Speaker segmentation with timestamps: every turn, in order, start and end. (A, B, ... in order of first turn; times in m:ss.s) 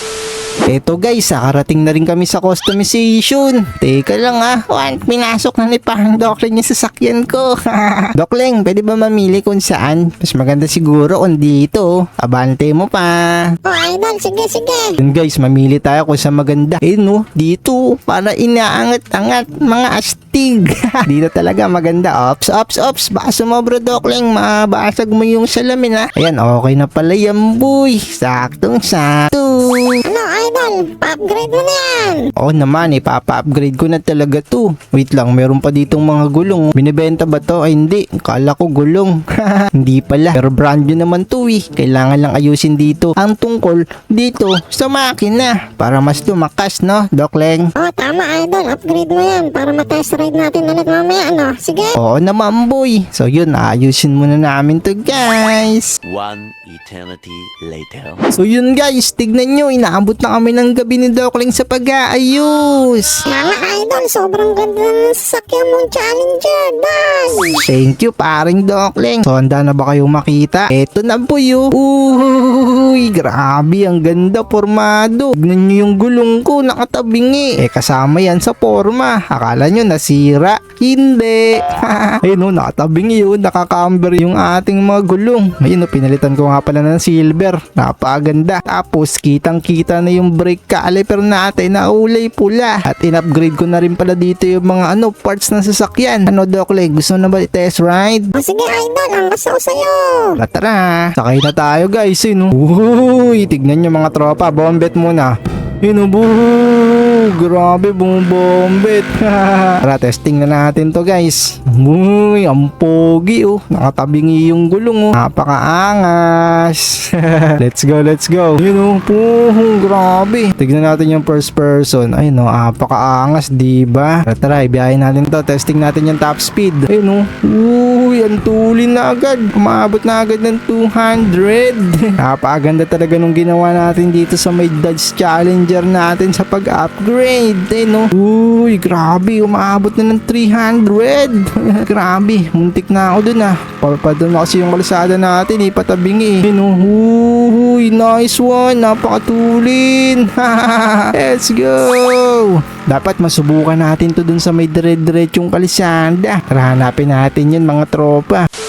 0:00.7-0:13.5 A
0:13.6-0:15.0 B
0:15.0-0:30.0 A
0:30.0-0:32.3 B
0:32.3-0:47.7 A
0:47.7-0:52.0 B
0:52.0-0:56.0 A
0:56.0-0:58.3 C
0:58.4-1:03.2 A
1:03.3-1:07.6 B
1:07.6-1:38.3 A
1:38.3-1:40.3 B
1:40.4-2:38.5 A